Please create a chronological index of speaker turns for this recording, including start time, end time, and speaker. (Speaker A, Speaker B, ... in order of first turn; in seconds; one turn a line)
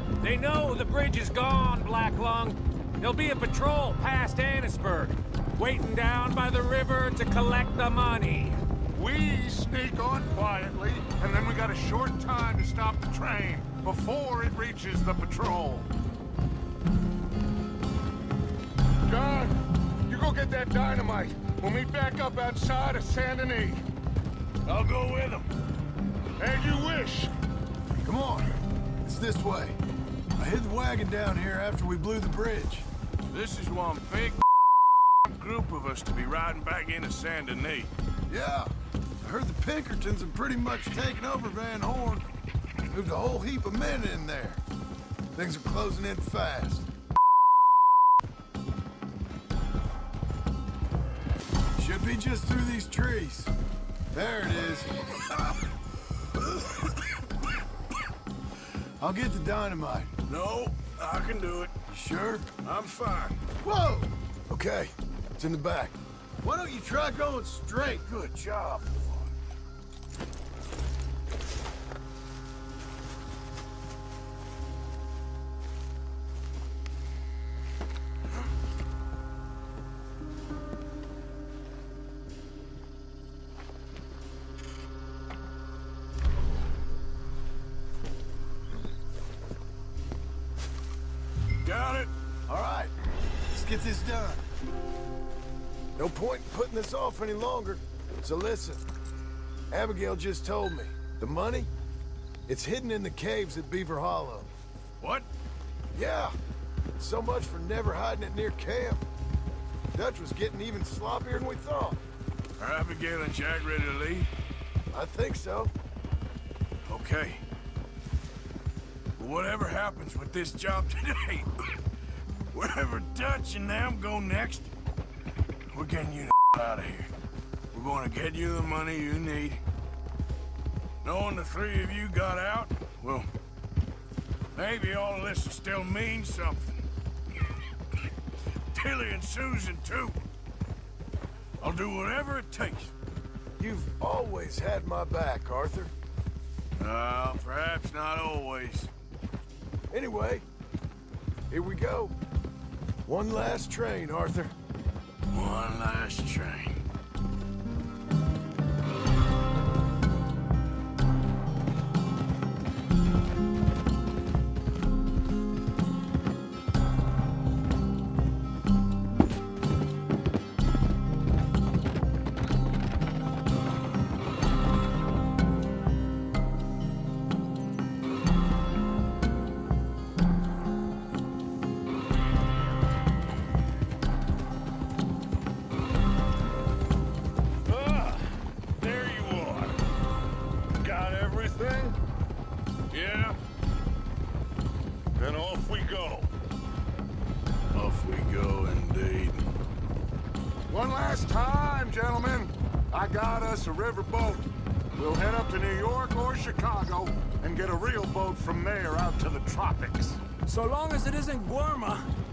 Speaker A: 0.2-8.6
Speaker B: 8.9-15.9
Speaker B: 19.0-23.8
Speaker C: 24.6-25.5
Speaker B: 26.4-27.3
Speaker D: 28.0-29.8
Speaker D: 30.4-32.9
Speaker C: 33.3-34.4
Speaker C: 35.2-37.9
Speaker D: 38.3-42.2
Speaker D: 42.9-44.6
Speaker D: 45.3-46.9
Speaker D: 51.8-53.5
Speaker D: 54.1-54.9
Speaker D: 59.0-60.1
Speaker C: 60.3-61.7
Speaker D: 61.9-62.5
Speaker C: 62.6-63.4
Speaker D: 63.6-68.1
Speaker C: 68.1-69.3
Speaker C: 91.6-92.1
Speaker D: 92.5-92.9
Speaker D: 93.5-94.4
Speaker D: 96.0-98.8
Speaker D: 99.7-101.7
Speaker D: 102.5-104.5
Speaker C: 105.0-105.2
Speaker D: 105.9-106.3
Speaker D: 107.0-109.0
Speaker D: 109.9-112.0
Speaker C: 112.6-114.3
Speaker D: 114.9-115.7
Speaker C: 116.8-117.4
Speaker C: 119.2-121.7
Speaker C: 122.5-124.7
Speaker C: 125.7-127.1
Speaker C: 127.7-129.6
Speaker C: 131.0-133.3
Speaker C: 134.5-136.8
Speaker C: 138.7-140.2
Speaker C: 141.6-142.9
Speaker D: 143.6-145.9
Speaker C: 146.8-148.9
Speaker D: 149.9-150.4
Speaker D: 151.5-152.1
Speaker D: 153.0-154.5
Speaker C: 155.3-156.8
Speaker B: 187.7-189.8
Speaker B: 190.8-192.0
Speaker C: 192.9-193.4
Speaker B: 195.1-196.3
Speaker C: 197.7-199.4
Speaker B: 200.7-210.2
Speaker A: 210.5-212.1